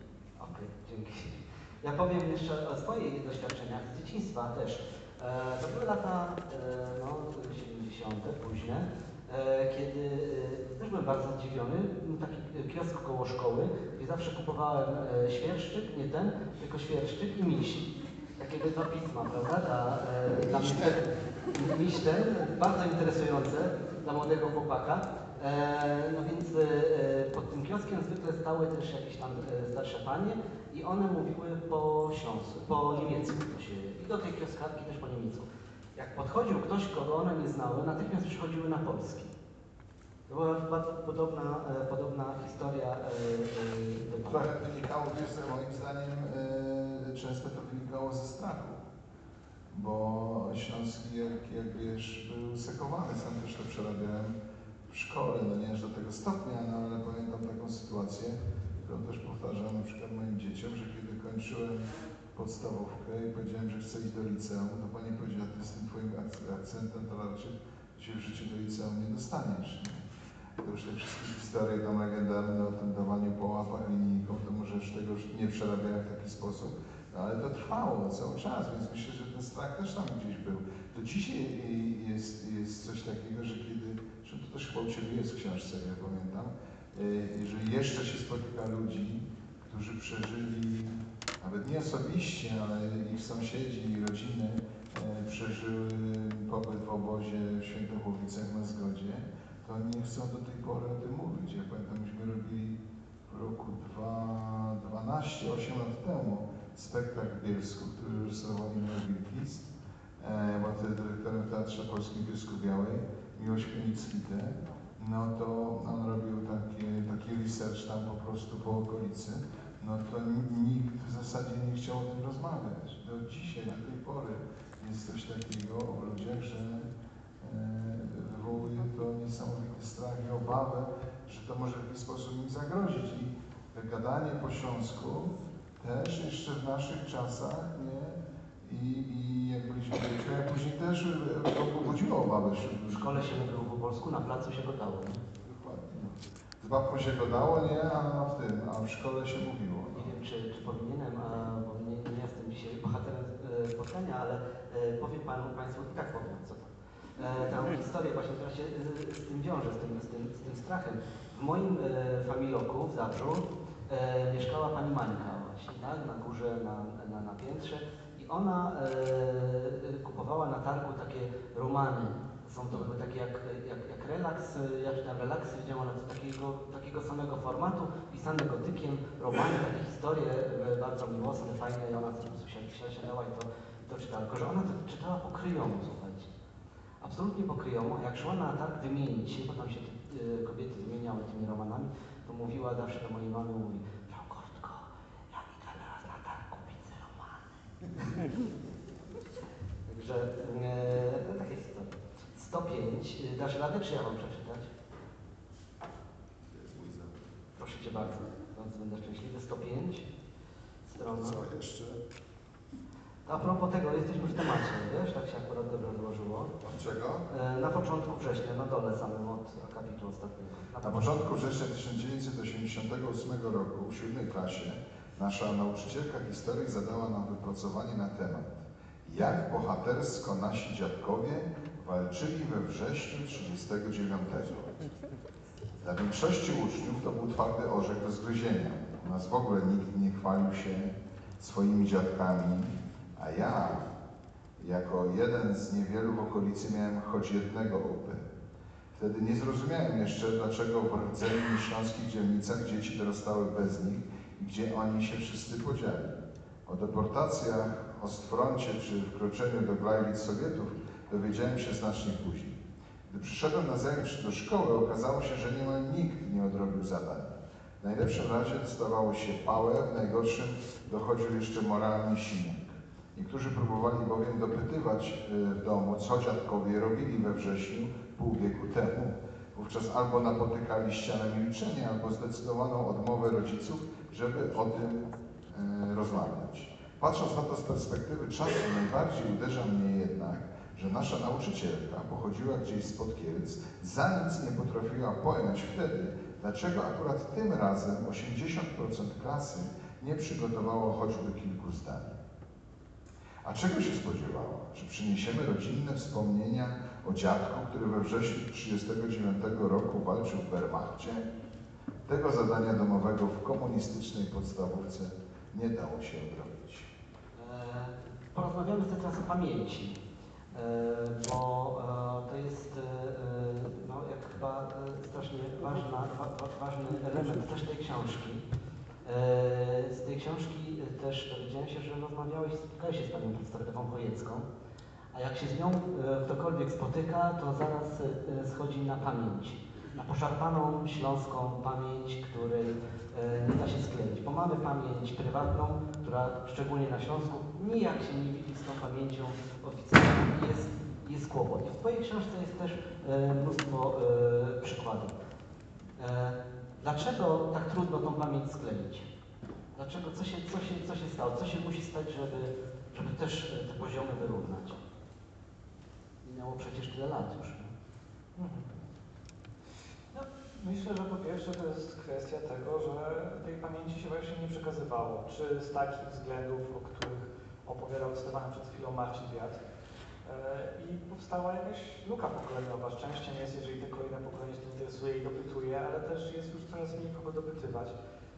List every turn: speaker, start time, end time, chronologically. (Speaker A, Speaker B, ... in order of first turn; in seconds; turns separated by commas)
Speaker A: 0.4-39.3, Speaker B: 20.5-20.8, Speaker A: 40.3-44.5, Speaker B: 44.3-48.8, Speaker B: 49.7-54.4, Speaker B: 54.9-70.0, Speaker B: 70.6-102.8, Speaker B: 103.3-126.9, Speaker B: 127.4-143.2, Speaker A: 142.9-145.2, Speaker B: 145.4-150.1, Speaker A: 149.9-186.3, Speaker A: 187.0-197.6, Speaker A: 199.9-204.7, Speaker B: 206.5-207.1, Speaker A: 207.6-210.1, Speaker A: 210.9-211.4, Speaker B: 211.0-212.0, Speaker A: 213.3-216.5, Speaker B: 216.6-217.3, Speaker A: 217.3-221.4, Speaker B: 220.8-234.8, Speaker B: 235.8-243.9, Speaker B: 244.6-248.2, Speaker B: 248.9-302.2, Speaker B: 303.4-311.3, Speaker B: 312.1-316.9, Speaker A: 317.4-320.0, Speaker A: 320.5-328.4, Speaker A: 329.1-334.5, Speaker A: 335.1-355.2, Speaker A: 356.0-359.1, Speaker A: 359.7-364.8, Speaker A: 366.2-367.7, Speaker C: 368.4-368.7, Speaker C: 370.1-379.6, Speaker C: 380.2-387.9